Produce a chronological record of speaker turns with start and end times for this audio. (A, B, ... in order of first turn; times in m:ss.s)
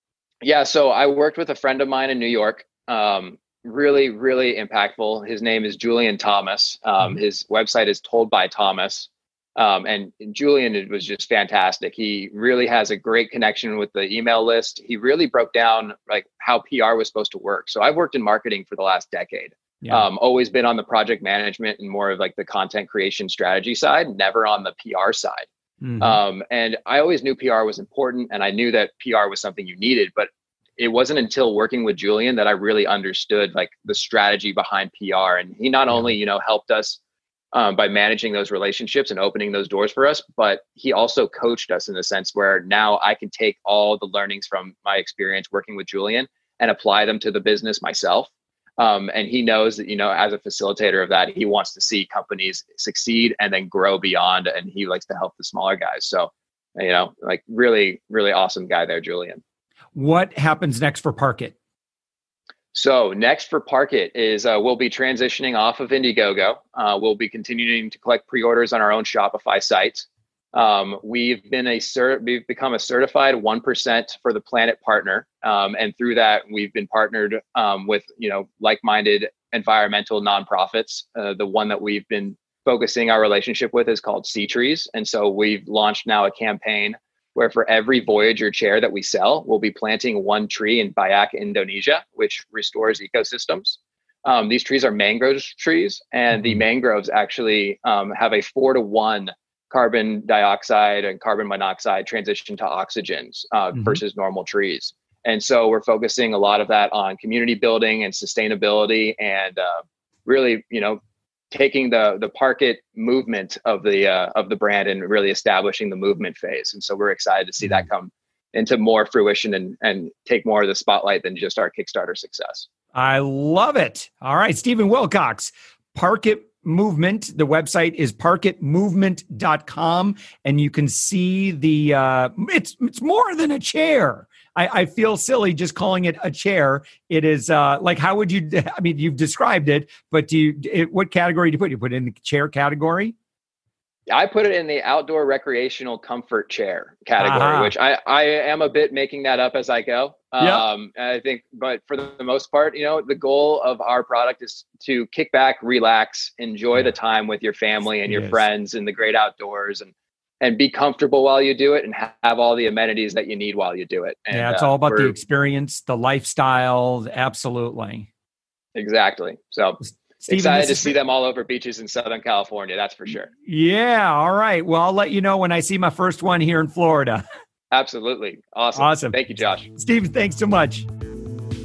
0:00.4-0:25.5 A
0:19.8-0:20.1 B
0:25.8-0:26.2 B
0:26.0-0:37.0 A
0:37.5-0:59.4 A
0:59.9-1:01.5 B
1:02.7-1:51.0 A
1:36.3-1:36.6 B
1:43.7-1:44.0 B
1:51.5-2:02.7 A
2:02.9-2:23.1 B
2:24.1-2:45.1 A
2:27.2-2:27.7 B
2:30.4-2:30.6 B
2:38.0-2:38.4 B
2:44.3-2:48.1 B
2:48.8-2:53.3 A
2:50.2-2:51.0 B
2:53.4-2:57.2 B
2:57.7-2:59.7 A
2:58.8-2:59.2 B
2:59.8-3:00.9 B